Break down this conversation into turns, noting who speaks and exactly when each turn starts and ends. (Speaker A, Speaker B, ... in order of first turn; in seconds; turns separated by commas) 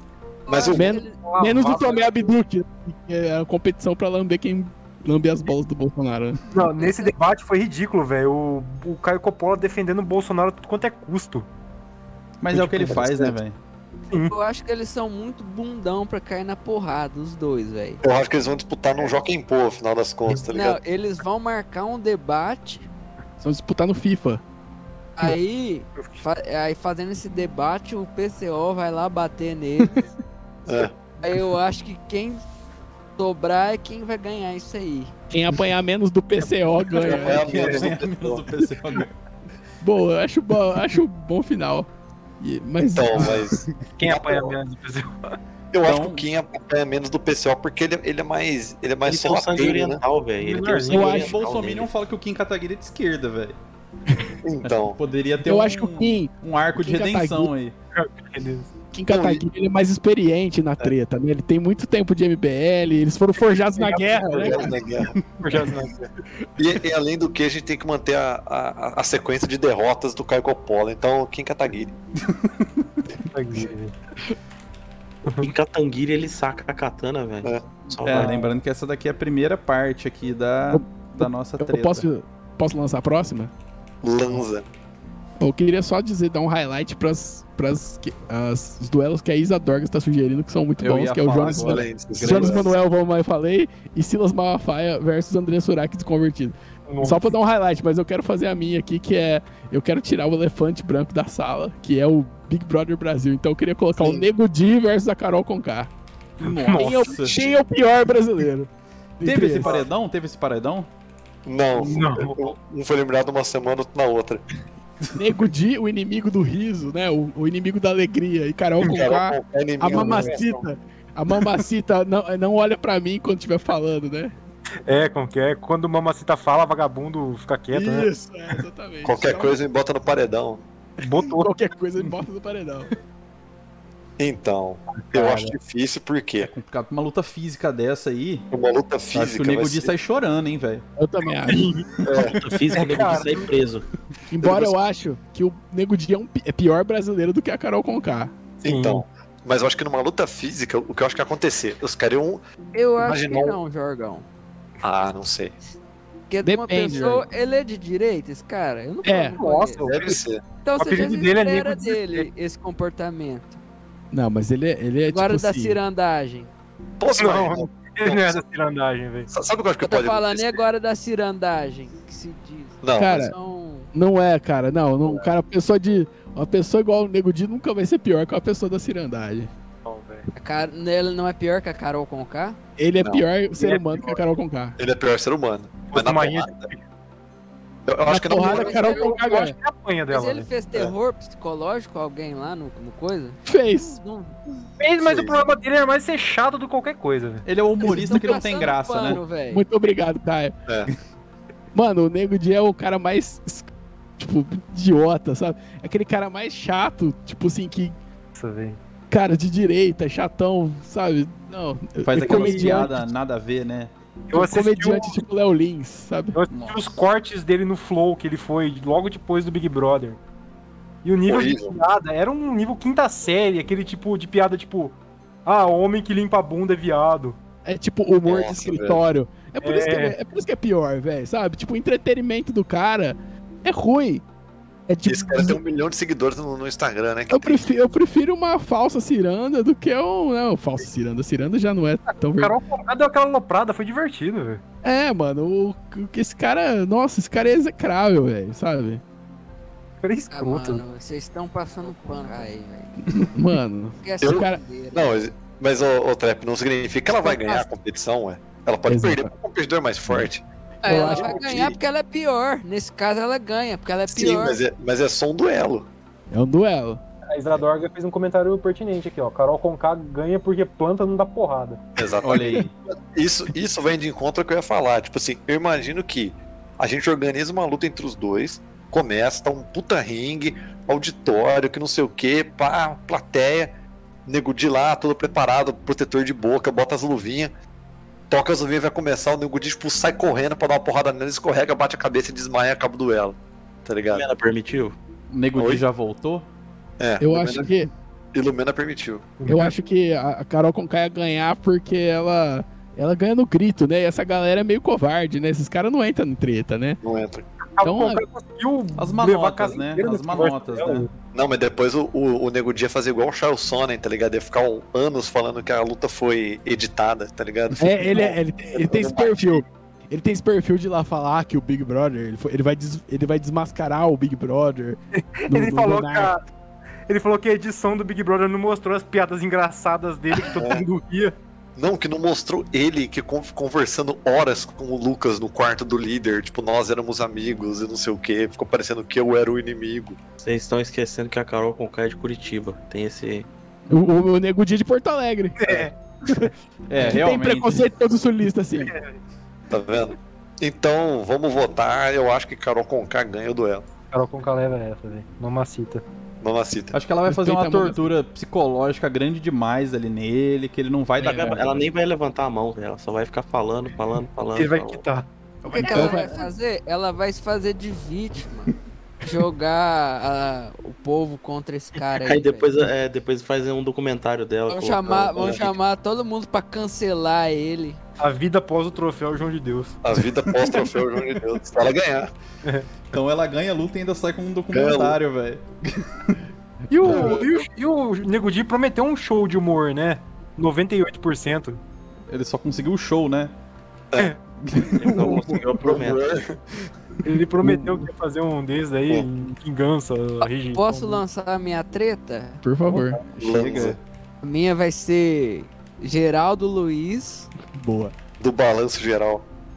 Speaker A: 0.5-1.1, Speaker B: 0.5-0.9, Speaker C: 0.7-6.4, Speaker D: 1.1-2.3, Speaker D: 6.5-11.5, Speaker A: 6.8-7.1, Speaker E: 12.4-13.6, Speaker D: 12.5-13.3, Speaker D: 14.1-14.3, Speaker A: 14.2-18.0, Speaker B: 18.0-20.8, Speaker A: 20.5-22.9, Speaker C: 23.4-24.4, Speaker A: 25.2-30.0, Speaker D: 26.0-26.2, Speaker B: 30.7-30.9, Speaker A: 31.2-32.4, Speaker A: 33.2-35.1, Speaker C: 35.3-37.5, Speaker D: 37.0-37.8, Speaker B: 37.0-38.5, Speaker E: 37.2-39.1, Speaker C: 39.8-41.9, Speaker C: 42.4-43.4, Speaker B: 42.9-44.6, Speaker D: 43.2-43.5, Speaker D: 44.0-45.3, Speaker B: 45.7-50.0, Speaker E: 45.8-46.2, Speaker F: 49.0-51.9, Speaker D: 50.4-51.1, Speaker C: 50.9-51.4, Speaker E: 51.1-53.6, Speaker B: 54.4-55.0, Speaker E: 54.6-57.8, Speaker C: 55.4-57.5, Speaker D: 57.9-58.7, Speaker C: 58.9-64.7, Speaker B: 59.1-59.4, Speaker D: 63.8-64.6, Speaker B: 64.2-65.2, Speaker D: 65.4-66.1, Speaker B: 66.6-72.0, Speaker E: 72.2-72.8, Speaker D: 73.3-74.0, Speaker F: 75.4-78.4, Speaker E: 78.0-82.1, Speaker D: 78.1-78.5, Speaker C: 80.7-83.5, Speaker B: 84.0-84.7, Speaker C: 85.4-105.9, Speaker E: 90.8-92.8, Speaker B: 91.5-92.7, Speaker D: 96.9-97.3, Speaker B: 104.0-104.3, Speaker E: 106.4-107.6, Speaker D: 106.4-107.1, Speaker C: 106.8-108.7, Speaker C: 109.2-109.8, Speaker E: 109.2-110.9, Speaker B: 111.5-114.4, Speaker D: 111.8-112.4, Speaker C: 115.2-124.3, Speaker B: 118.8-120.7, Speaker D: 119.9-120.3, Speaker D: 124.9-128.6, Speaker C: 127.7-129.6, Speaker B: 129.0-130.6, Speaker D: 131.0-131.6, Speaker C: 131.0-132.9, Speaker B: 134.2-136.5, Speaker D: 135.0-135.5, Speaker E: 136.4-138.5, Speaker B: 138.5-139.9, Speaker E: 139.1-140.9, Speaker C: 141.0-141.7, Speaker D: 141.4-141.9, Speaker B: 142.0-142.4, Speaker F: 142.3-143.9, Speaker D: 142.7-143.5, Speaker C: 144.3-148.4, Speaker B: 144.4-144.8, Speaker D: 148.6-149.0, Speaker B: 148.6-152.4, Speaker A: 152.7-154.3, Speaker B: 153.0-153.6, Speaker B: 154.8-155.6, Speaker A: 156.3-159.8, Speaker C: 156.4-157.2, Speaker C: 159.0-159.4, Speaker D: 159.4-160.2, Speaker B: 159.8-160.4, Speaker A: 160.6-163.6, Speaker D: 160.8-162.3, Speaker C: 164.1-165.8, Speaker A: 165.1-166.5, Speaker B: 167.0-168.4, Speaker D: 167.2-169.3, Speaker B: 169.3-170.6, Speaker A: 169.8-173.9, Speaker B: 172.8-173.3, Speaker C: 173.0-173.3, Speaker C: 173.9-179.5, Speaker D: 179.8-180.3, Speaker A: 180.3-182.6, Speaker C: 182.8-184.8, Speaker D: 183.6-184.0, Speaker B: 184.8-186.7, Speaker D: 185.9-186.8, Speaker B: 187.9-189.0, Speaker C: 188.1-189.6, Speaker A: 188.3-189.4, Speaker D: 188.5-190.5, Speaker A: 190.1-194.4, Speaker C: 193.5-194.0, Speaker D: 194.8-197.5, Speaker B: 195.0-195.4, Speaker E: 197.4-199.2, Speaker A: 197.8-199.6, Speaker C: 197.8-200.5, Speaker C: 201.7-208.0, Speaker D: 208.3-208.8, Speaker C: 209.1-213.1, Speaker E: 212.1-213.9, Speaker D: 212.2-212.9, Speaker D: 214.3-215.2, Speaker C: 214.3-216.4, Speaker D: 216.3-220.2, Speaker E: 216.5-216.9, Speaker D: 221.0-227.4, Speaker B: 221.3-221.8, Speaker C: 227.7-234.2, Speaker B: 228.3-229.0, Speaker D: 229.6-230.2, Speaker C: 234.9-235.6, Speaker B: 235.1-237.7, Speaker C: 237.3-242.6, Speaker D: 242.3-244.6, Speaker C: 244.8-249.0, Speaker D: 250.0-250.8, Speaker A: 250.3-253.0, Speaker C: 253.1-254.6, Speaker A: 254.0-255.3, Speaker B: 254.2-260.4, Speaker A: 257.2-257.7, Speaker C: 258.9-259.3, Speaker A: 260.8-264.6, Speaker C: 260.9-261.4, Speaker D: 261.0-261.2, Speaker B: 261.0-261.8, Speaker B: 264.1-265.9, Speaker C: 266.3-267.0, Speaker D: 267.3-271.8, Speaker B: 272.0-283.7, Speaker E: 272.2-272.7, Speaker C: 272.4-272.6, Speaker B: 284.3-287.5, Speaker B: 288.3-294.2, Speaker F: 294.1-295.0, Speaker E: 295.3-296.5, Speaker B: 295.5-295.8, Speaker B: 297.0-297.7, Speaker C: 297.2-297.9, Speaker B: 298.3-299.3, Speaker D: 299.4-299.8, Speaker C: 299.5-307.0, Speaker B: 307.0-307.4, Speaker D: 307.8-311.1, Speaker C: 307.8-308.2, Speaker E: 309.0-311.1, Speaker B: 311.3-319.6, Speaker C: 317.8-326.4, Speaker D: 325.4-326.4, Speaker D: 327.1-331.4, Speaker B: 330.5-330.8, Speaker B: 331.8-340.2, Speaker F: 340.4-343.5, Speaker C: 343.9-345.6, Speaker D: 345.6-345.9, Speaker C: 346.2-349.0, Speaker E: 346.9-347.9, Speaker D: 348.8-349.2, Speaker B: 349.7-353.9, Speaker D: 354.1-356.0, Speaker B: 356.4-356.9, Speaker E: 356.9-361.9, Speaker C: 357.3-358.0, Speaker F: 361.2-365.0, Speaker D: 364.6-366.2, Speaker A: 365.7-372.7, Speaker C: 365.7-366.4, Speaker F: 372.2-375.7, Speaker A: 374.7-378.0, Speaker B: 375.2-375.6, Speaker D: 378.2-380.0, Speaker B: 380.0-382.3, Speaker D: 382.6-382.9, Speaker E: 383.1-386.4, Speaker B: 384.7-385.2, Speaker D: 386.9-391.8, Speaker C: 387.0-387.3, Speaker B: 387.0-387.7, Speaker E: 392.3-393.5, Speaker E: 394.6-395.5, Speaker F: 394.9-396.4, Speaker B: 395.1-396.6, Speaker D: 397.2-401.2, Speaker A: 400.7-402.6, Speaker C: 402.6-403.7, Speaker E: 403.4-404.0, Speaker B: 403.4-404.0, Speaker A: 404.4-407.5, Speaker C: 407.7-408.1, Speaker B: 408.4-409.5